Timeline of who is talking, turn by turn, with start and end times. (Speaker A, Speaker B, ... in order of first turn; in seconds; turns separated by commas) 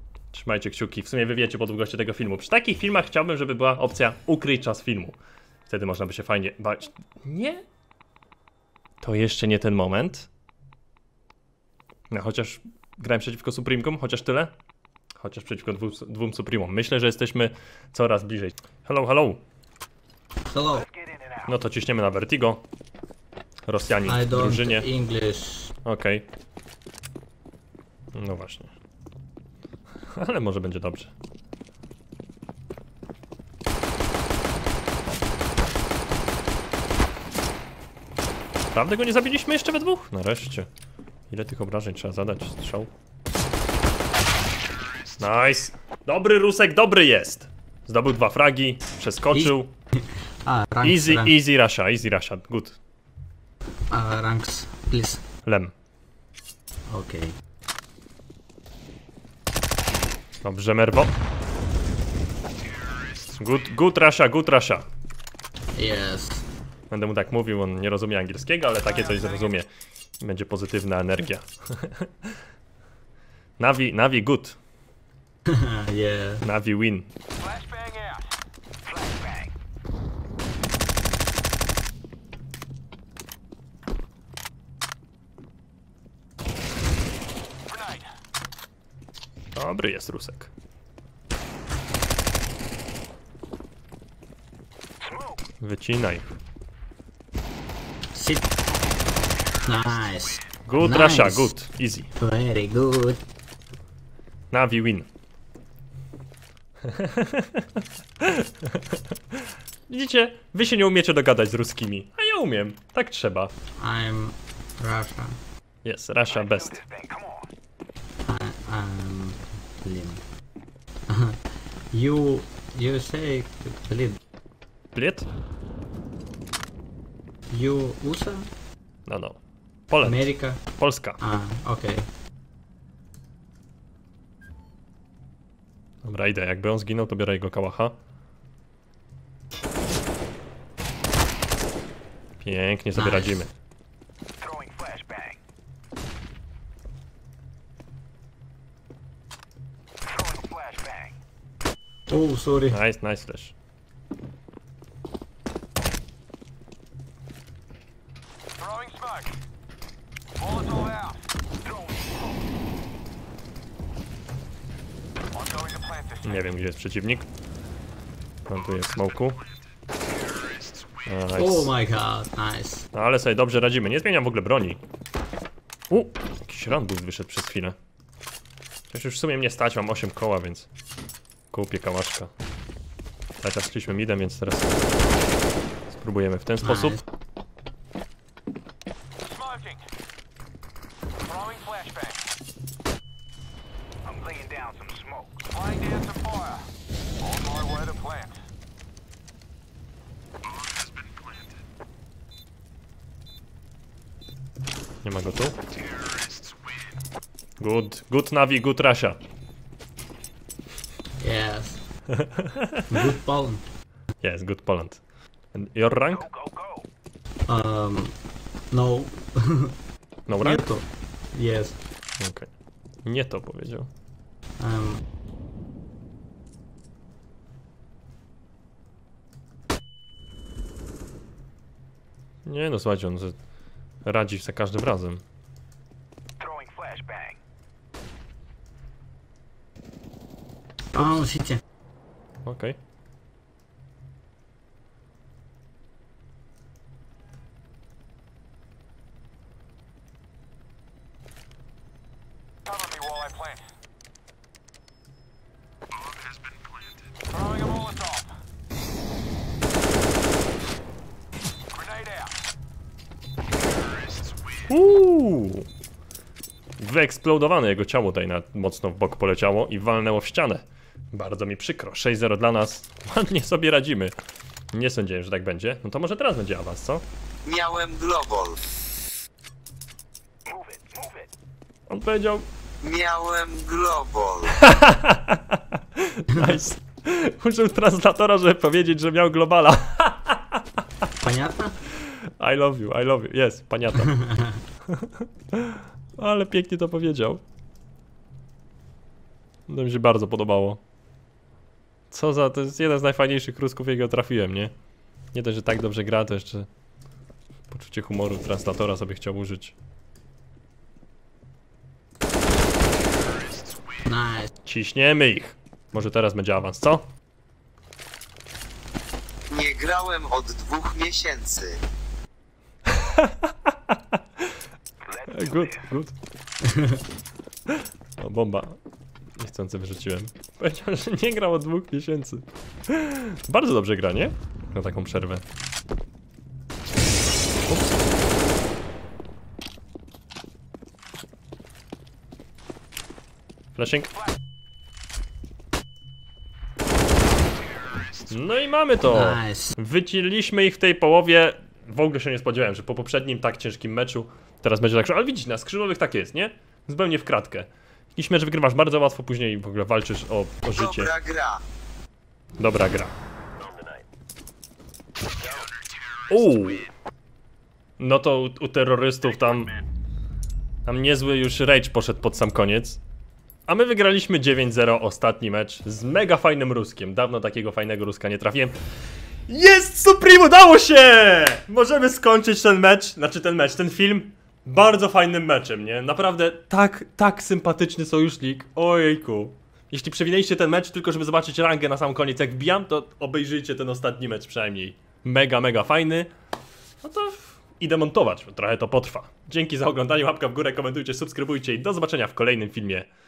Speaker A: 0.3-5.2, Speaker A: 5.7-7.6, Speaker A: 9.0-10.3, Speaker A: 12.1-14.5, Speaker A: 15.2-19.4, Speaker B: 20.5-20.9, Speaker C: 20.8-21.6, Speaker A: 21.5-22.6, Speaker A: 23.7-24.9, Speaker B: 24.1-25.8, Speaker A: 25.9-26.2, Speaker A: 28.1-28.7, Speaker A: 30.2-31.1, Speaker A: 38.7-40.7, Speaker A: 41.3-42.9, Speaker A: 45.2-49.7, Speaker B: 49.3-51.3, Speaker A: 50.8-52.8, Speaker B: 53.9-55.2, Speaker A: 55.5-55.7, Speaker B: 56.9-57.4, Speaker A: 60.4-61.1, Speaker A: 63.4-64.9, Speaker B: 65.8-66.5, Speaker A: 66.9-69.7, Speaker A: 70.2-72.3, Speaker A: 73.6-74.6, Speaker B: 75.5-76.4, Speaker A: 76.4-77.1, Speaker C: 77.4-78.3, Speaker C: 78.8-79.5, Speaker C: 87.7-88.1, Speaker A: 89.5-90.5, Speaker C: 95.0-95.4, Speaker A: 95.6-96.4, Speaker B: 98.1-98.5, Speaker B: 99.6-101.5, Speaker A: 100.7-102.1, Speaker B: 102.2-103.2, Speaker A: 104.5-105.1, Speaker A: 106.9-107.7, Speaker A: 108.2-109.0, Speaker A: 109.9-113.5, Speaker B: 113.8-115.4, Speaker A: 115.8-116.8, Speaker C: 116.3-117.5, Speaker B: 118.3-120.2, Speaker B: 121.1-121.4, Speaker B: 121.9-124.2, Speaker A: 125.0-125.3, Speaker B: 127.5-128.5, Speaker A: 129.1-131.2, Speaker B: 130.0-132.1, Speaker A: 136.0-138.0, Speaker A: 142.4-143.5, Speaker B: 142.9-143.4, Speaker C: 144.4-145.4, Speaker C: 150.0-151.2, Speaker B: 152.1-152.8, Speaker A: 152.7-153.5, Speaker C: 158.7-159.1, Speaker C: 160.4-162.4, Speaker C: 165.4-166.2, Speaker A: 166.2-167.3, Speaker A: 168.5-169.4, Speaker A: 171.1-171.7, Speaker B: 171.3-172.9, Speaker A: 172.9-174.8, Speaker A: 175.9-177.8, Speaker A: 178.9-180.7, Speaker A: 181.5-182.3, Speaker A: 183.4-184.7, Speaker A: 185.9-187.0, Speaker B: 186.6-187.0, Speaker C: 189.3-189.8, Speaker C: 191.3-192.1, Speaker C: 194.1-196.6, Speaker C: 197.3-198.3, Speaker A: 205.0-205.6, Speaker A: 207.6-209.2, Speaker B: 211.2-211.8, Speaker A: 212.2-212.8, Speaker B: 212.9-213.6, Speaker A: 214.2-215.0, Speaker A: 215.5-216.3, Speaker C: 216.0-216.9, Speaker B: 217.5-218.2, Speaker B: 218.7-219.8, Speaker A: 220.3-220.7, Speaker B: 220.4-221.8, Speaker A: 222.2-222.5, Speaker A: 223.1-223.9, Speaker B: 224.6-225.0, Speaker A: 232.5-233.4, Speaker A: 234.0-235.2, Speaker C: 236.4-237.4, Speaker B: 240.9-241.6, Speaker A: 242.4-242.8, Speaker A: 264.7-265.7, Speaker A: 266.8-274.1, Speaker A: 274.7-277.0, Speaker D: 277.5-278.6, Speaker C: 280.5-281.3, Speaker A: 281.9-282.5, Speaker D: 282.8-284.5, Speaker A: 284.6-290.6, Speaker B: 291.2-291.8, Speaker A: 292.4-294.2, Speaker B: 294.1-294.6, Speaker A: 294.9-297.4, Speaker A: 299.7-300.8, Speaker A: 302.1-304.7, Speaker A: 305.3-306.7, Speaker A: 307.7-309.7, Speaker B: 314.1-314.5, Speaker A: 314.7-317.1, Speaker D: 319.5-321.8, Speaker A: 322.9-324.0, Speaker C: 325.1-325.9, Speaker A: 325.3-326.1, Speaker A: 328.2-328.8, Speaker A: 329.4-335.4, Speaker A: 337.7-338.0, Speaker A: 343.8-344.1, Speaker A: 348.3-361.1, Speaker B: 349.1-349.8, Speaker D: 360.7-361.6, Speaker A: 362.6-363.1, Speaker A: 366.3-366.9, Speaker A: 368.0-369.8, Speaker A: 370.9-373.0, Speaker A: 373.7-378.8, Speaker A: 379.5-396.3, Speaker A: 397.0-403.1